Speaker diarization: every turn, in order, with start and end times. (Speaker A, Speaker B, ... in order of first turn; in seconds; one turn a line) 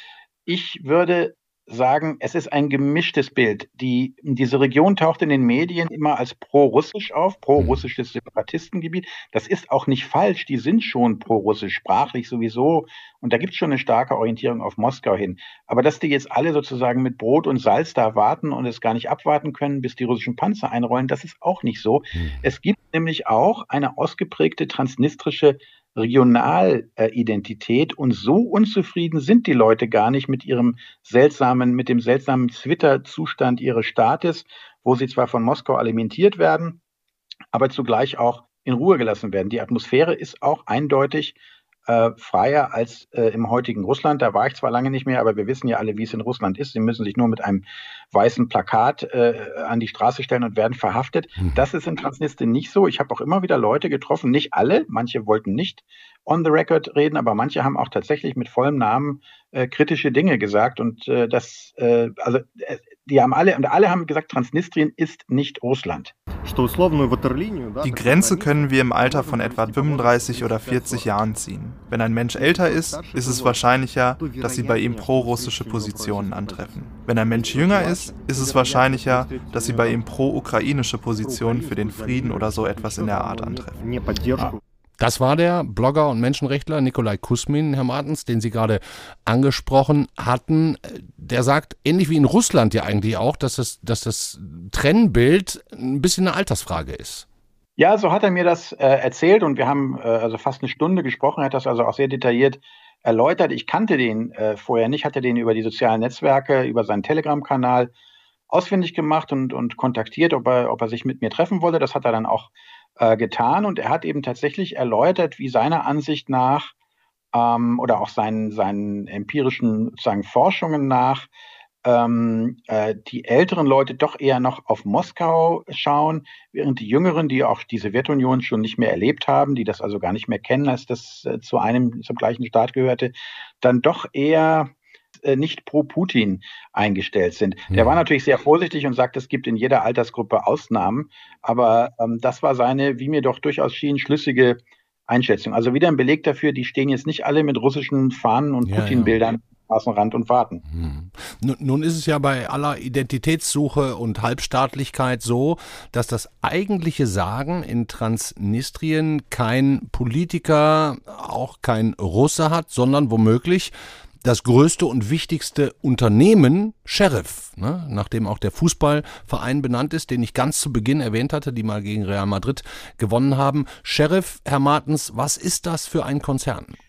Speaker A: 0.5-36.8
Speaker B: 7.6-7.8
Speaker B: 22.1-22.4
Speaker A: 37.5-66.1
Speaker C: 67.8-84.2
Speaker B: 84.4-97.2
Speaker A: 97.8-107.9
Speaker A: 108.5-116.7
Speaker A: 117.3-121.3
Speaker A: 121.8-134.7
Speaker A: 135.2-150.6
Speaker B: 137.7-138.0
Speaker B: 148.7-149.2
Speaker B: 150.7-176.8